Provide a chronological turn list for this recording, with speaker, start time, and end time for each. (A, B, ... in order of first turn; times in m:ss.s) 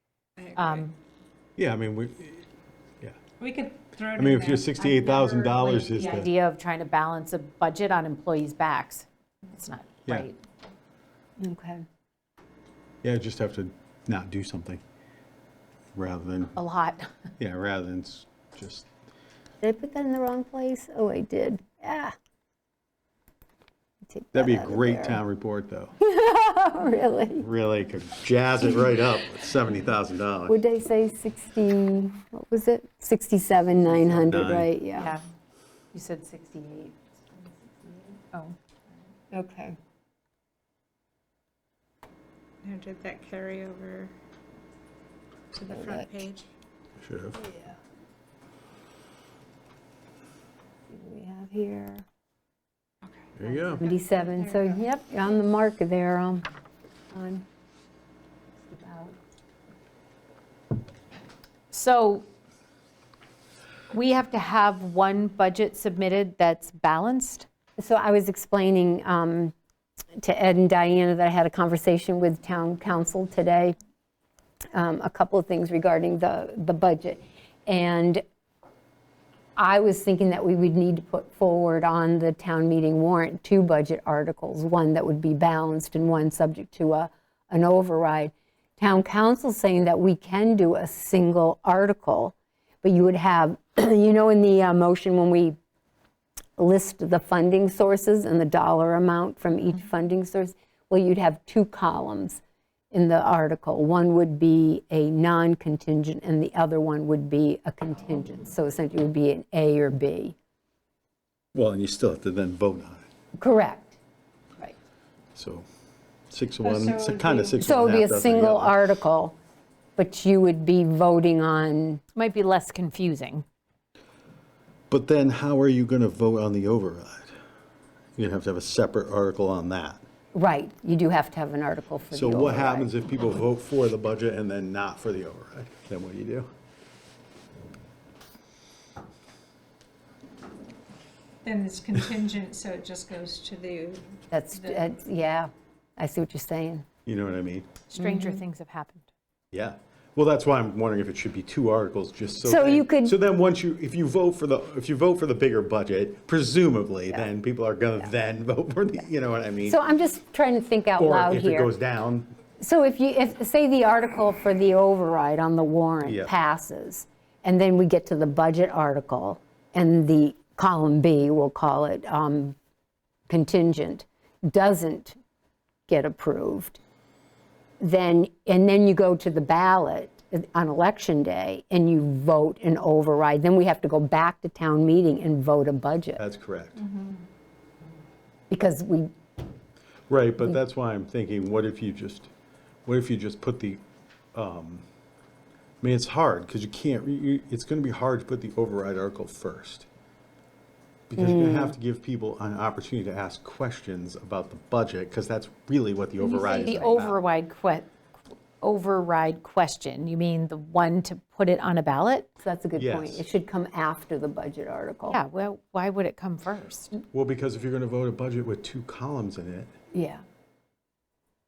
0:00.4-0:00.9 A
0:00.6-0:00.9 B
0:01.6-0:02.4 C
0:03.4-0:06.1 A
0:04.1-0:06.3 C
0:05.8-0:10.4 B
0:11.4-0:11.8 D
0:13.0-0:14.8 C
0:16.0-0:16.6 C
0:16.6-0:17.1 B
0:17.4-0:18.9 C
0:19.6-0:22.1 D
0:24.0-0:25.2 D
0:24.3-0:25.9 C
0:26.0-0:27.4 D
0:27.4-0:30.6 C
0:30.5-0:35.1 D
0:34.0-0:34.7 C
0:35.0-0:35.2 B
0:35.9-0:38.6 B
0:39.3-0:39.8 D
0:42.6-0:44.1 A
0:45.5-0:46.5 A
0:47.0-0:47.4 C
0:47.4-0:47.8 D
0:50.9-0:52.0 D
0:53.0-0:54.8 A
0:53.4-0:53.9 C
0:53.8-0:56.4 D
0:57.1-0:57.4 D
0:58.6-0:59.1 D
1:01.7-1:02.2 B
1:03.9-1:07.5 B
1:07.8-1:09.5 D
1:10.2-1:13.7 D
1:14.7-1:18.2 D
1:19.6-1:35.6 D
1:36.6-1:42.4 D
1:42.9-1:50.4 D
1:51.5-1:53.0 C
1:53.4-1:54.0 D
1:55.3-1:55.7 C
1:56.3-1:58.8 C
1:56.6-1:57.6 A
1:57.6-1:59.4 D
2:00.0-2:02.0 D
2:02.1-2:03.4 B
2:04.9-2:07.4 C
2:08.2-2:10.0 C
2:10.3-2:12.9 D
2:12.1-2:16.5 C
2:21.4-2:24.8 A
2:24.3-2:26.8 D
2:27.0-2:27.7 C
2:27.9-2:29.1 B
2:28.0-2:28.4 D
2:29.5-2:39.8 C
2:32.4-2:33.2 D
2:39.6-2:41.7 D
2:41.0-2:42.3 C
2:42.6-2:52.6 D
2:46.0-2:46.3 C
2:53.3-2:55.2 D
2:55.9-2:56.8 D
2:57.8-3:06.2 D
3:06.2-3:06.8 C
3:08.5-3:09.1 D
3:10.1-3:12.3 C
3:12.8-3:13.8 C
3:14.3-3:14.8 C
3:15.8-3:19.9 C
3:21.1-3:27.2 C
3:21.2-3:21.7 D
3:26.2-3:27.9 B
3:26.5-3:27.0 D
3:28.6-3:32.3 B
3:32.4-3:35.2 D
3:32.8-3:33.2 C
3:35.1-3:37.0 B
3:37.1-3:39.7 C
3:39.9-3:40.2 D